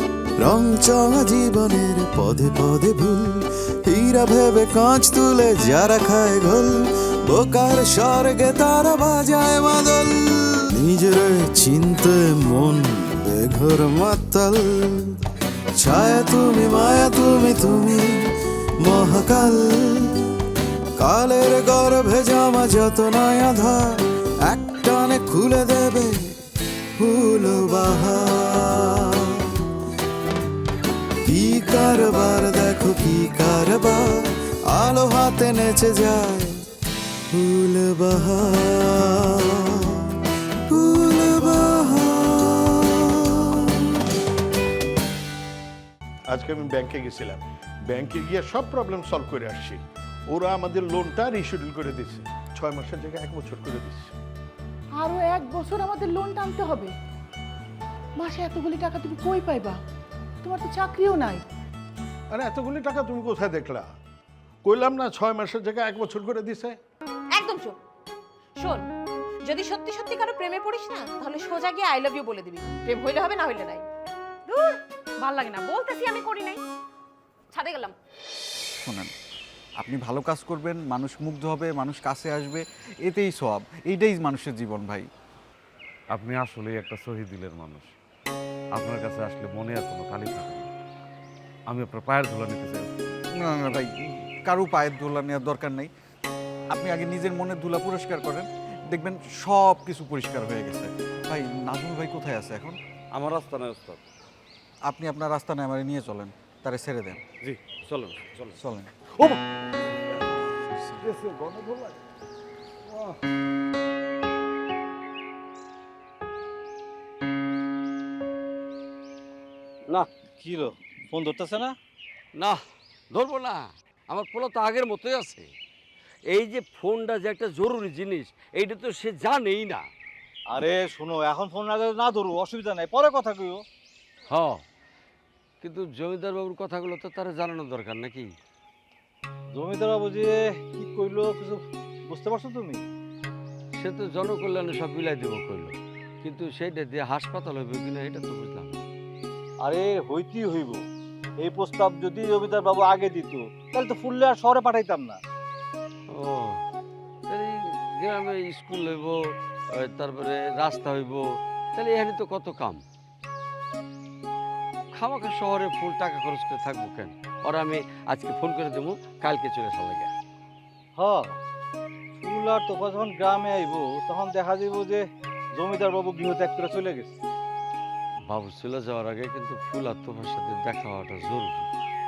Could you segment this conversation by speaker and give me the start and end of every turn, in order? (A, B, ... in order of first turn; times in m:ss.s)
0:00.4-0:15.1 A
0:15.8-0:18.3 A
0:18.8-0:20.1 A
0:21.0-0:24.0 A
0:24.5-0:26.3 A
0:27.0-0:29.0 A
0:31.2-0:34.1 A
0:34.7-0:36.5 A
0:37.3-0:39.5 A
0:40.7-0:42.8 A
0:46.3-0:49.8 B
0:50.3-0:54.1 B
0:55.0-0:56.8 C
0:58.2-0:59.7 C
1:00.4-1:01.3 C
1:02.5-1:03.9 B
1:04.7-1:06.7 B
1:07.4-1:07.7 D
1:08.6-1:08.8 D
1:09.4-1:13.8 D
1:14.5-1:16.6 D
1:17.5-1:17.9 D
1:18.8-1:19.1 E
1:19.8-1:25.1 E
1:26.1-1:27.9 F
1:28.7-1:30.7 F
1:31.7-1:32.9 F
1:33.4-1:35.9 E
1:36.7-1:42.8 E
1:43.1-1:44.0 G
1:44.9-1:47.2 E
1:47.8-1:48.4 G
1:48.6-1:48.9 E
1:51.0-1:51.9 F
2:00.4-2:01.7 H
2:02.3-2:05.5 G
2:06.3-2:09.8 G
2:10.5-2:13.6 H
2:14.3-2:14.6 G
2:15.6-2:18.3 G
2:19.5-2:22.8 H
2:23.7-2:28.8 G
2:29.6-2:30.8 H
2:31.4-2:35.2 H
2:36.1-2:36.6 G
2:37.3-2:42.8 G
2:44.9-2:50.1 G
2:51.0-2:51.3 H
2:52.2-2:55.0 H
2:55.6-2:57.1 H
2:58.2-3:01.7 G